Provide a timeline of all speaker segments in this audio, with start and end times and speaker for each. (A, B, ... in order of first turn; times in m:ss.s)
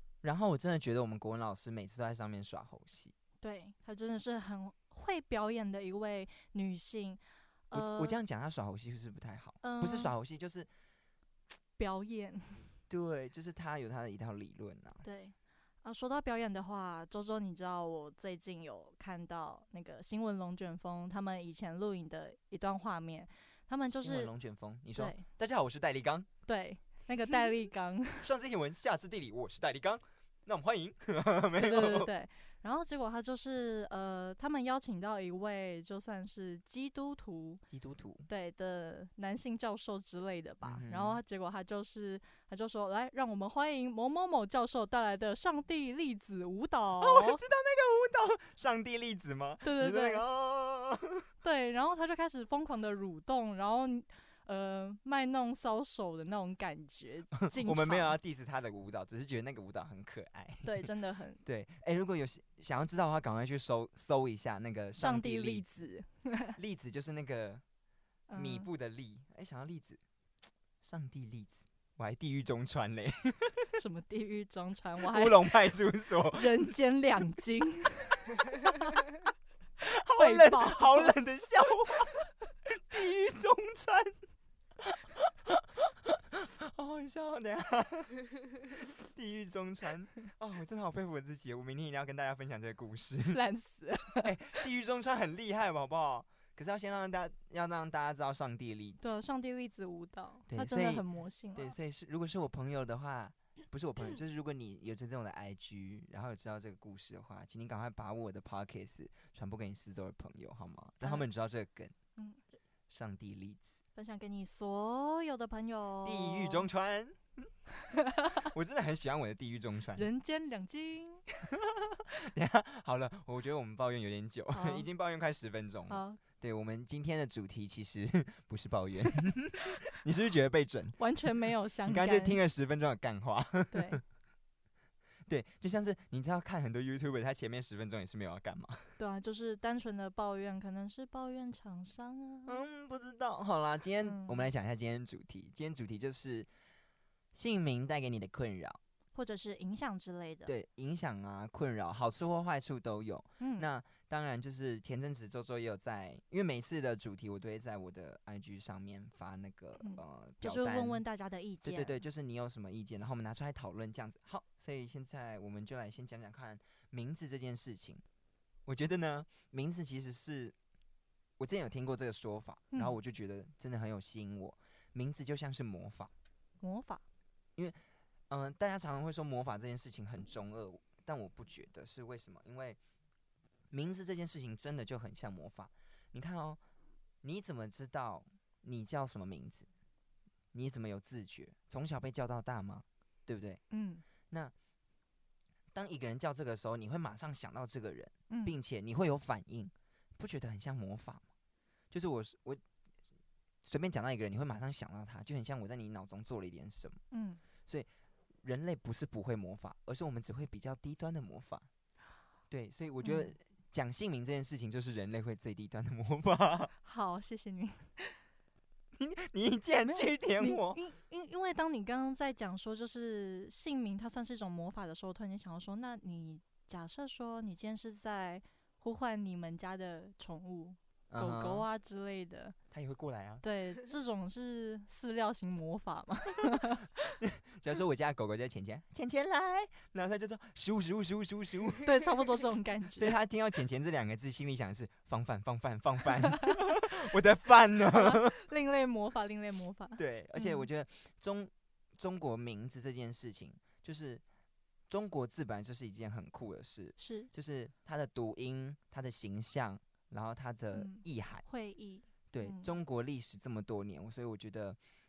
0:00.2-0:03.1 A
0:03.4-0:08.2 B
0:07.7-0:10.7 A
0:09.6-0:10.1 B
0:11.8-0:12.8 B
0:12.9-0:15.0 A
0:15.0-0:24.3 B
0:23.9-0:26.3 A
0:25.0-0:25.2 B
0:26.5-0:28.3 B
0:28.2-0:32.1 A
0:31.6-0:37.6 B
0:37.7-0:38.3 A
0:38.3-0:47.4 B
0:40.6-0:41.2 A
0:47.0-0:51.2 A
0:49.6-0:50.2 B
0:51.4-0:58.2 B
0:57.4-1:00.9 A
1:00.6-1:01.4 B
1:01.4-1:05.7 A
1:05.0-1:06.6 B
1:06.6-1:07.6 A
1:08.3-1:08.7 B
1:08.4-1:10.0 A
1:10.8-1:13.8 A
1:13.8-1:15.5 B
1:15.0-1:16.7 A
1:16.3-1:19.0 B
1:19.8-1:22.1 A
1:20.2-1:21.1 B
1:22.7-1:24.2 A
1:24.8-1:28.2 A
1:29.1-1:33.4 A
1:33.3-1:34.5 B
1:34.2-1:39.0 A
1:39.0-1:41.7 B
1:40.5-1:51.9 A
1:52.9-1:53.7 A
1:54.0-1:56.7 B
1:56.0-1:57.5 A
1:58.4-2:00.1 A
2:00.0-2:01.2 B
2:01.9-2:11.0 A
2:04.5-2:04.9 B
2:05.9-2:06.2 B
2:11.0-2:12.4 B
2:11.9-2:14.0 A
2:13.7-2:14.0 B
2:15.3-2:19.0 A
2:19.0-2:22.6 B
2:22.5-2:26.5 A
2:24.0-2:24.5 B
2:27.3-2:28.8 A
2:29.2-2:30.5 B
2:30.5-2:41.0 A
2:33.4-2:33.7 B
2:39.8-2:42.0 B
2:41.6-2:48.0 A
2:48.7-2:50.6 A
2:51.4-2:56.1 A
2:56.6-2:57.0 B
2:58.3-3:02.8 A
3:03.7-3:06.6 A
3:07.2-3:09.7 A
3:10.5-3:13.6 A
3:13.7-3:14.0 B
3:15.7-3:21.2 A
3:18.3-3:18.6 B
3:21.9-3:22.6 A
3:23.6-3:27.0 A
3:27.1-3:27.4 B
3:28.4-3:31.7 A
3:32.5-3:36.7 A
3:33.0-3:33.3 B
3:36.8-3:38.2 B
3:39.0-3:40.8 A
3:39.8-3:52.6 B
3:51.1-3:51.7 A
3:52.7-3:53.4 A
3:53.4-3:57.1 B
3:57.2-4:01.8 A
4:01.8-4:03.2 B
4:03.0-4:08.4 A
4:06.3-4:06.6 B
4:07.9-4:10.7 B
4:10.0-4:14.2 A
4:14.9-4:21.4 A
4:17.0-4:17.3 B
4:20.7-4:22.7 B
4:22.3-4:24.8 A